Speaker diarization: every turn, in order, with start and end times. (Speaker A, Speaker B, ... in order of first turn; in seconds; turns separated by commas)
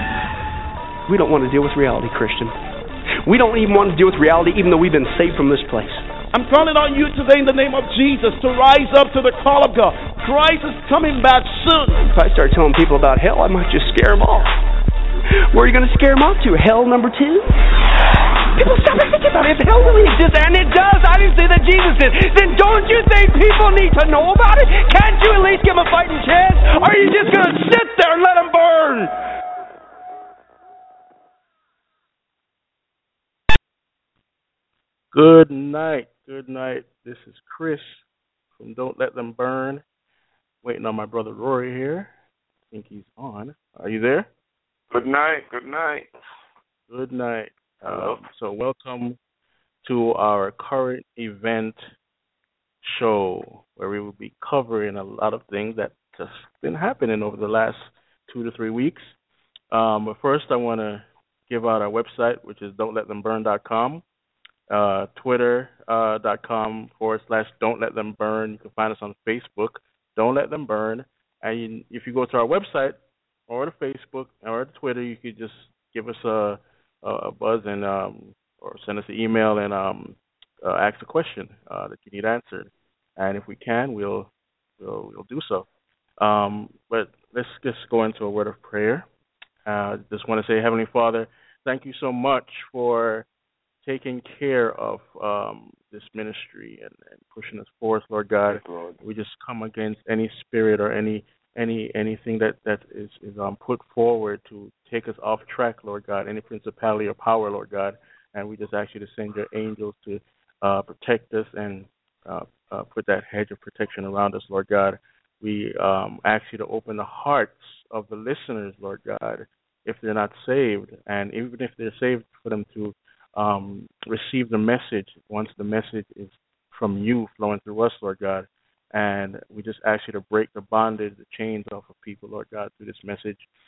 Speaker A: 1.1-2.6, Speaker A: 3.2-6.0, Speaker B: 6.3-12.1, Speaker A: 12.1-14.6, Speaker A: 15.5-17.6, Speaker A: 18.5-29.1, Speaker C: 35.1-38.0, Speaker C: 38.6-39.8, Speaker C: 40.6-42.1, Speaker C: 42.7-44.3, Speaker D: 44.9-46.1, Speaker C: 46.9-49.2, Speaker D: 47.8-48.2, Speaker C: 49.8-51.8, Speaker C: 52.8-59.1, Speaker C: 59.7-64.0, Speaker C: 64.7-85.7, Speaker C: 86.2-89.0, Speaker C: 89.7-93.2, Speaker C: 93.8-133.4, Speaker D: 98.5-99.0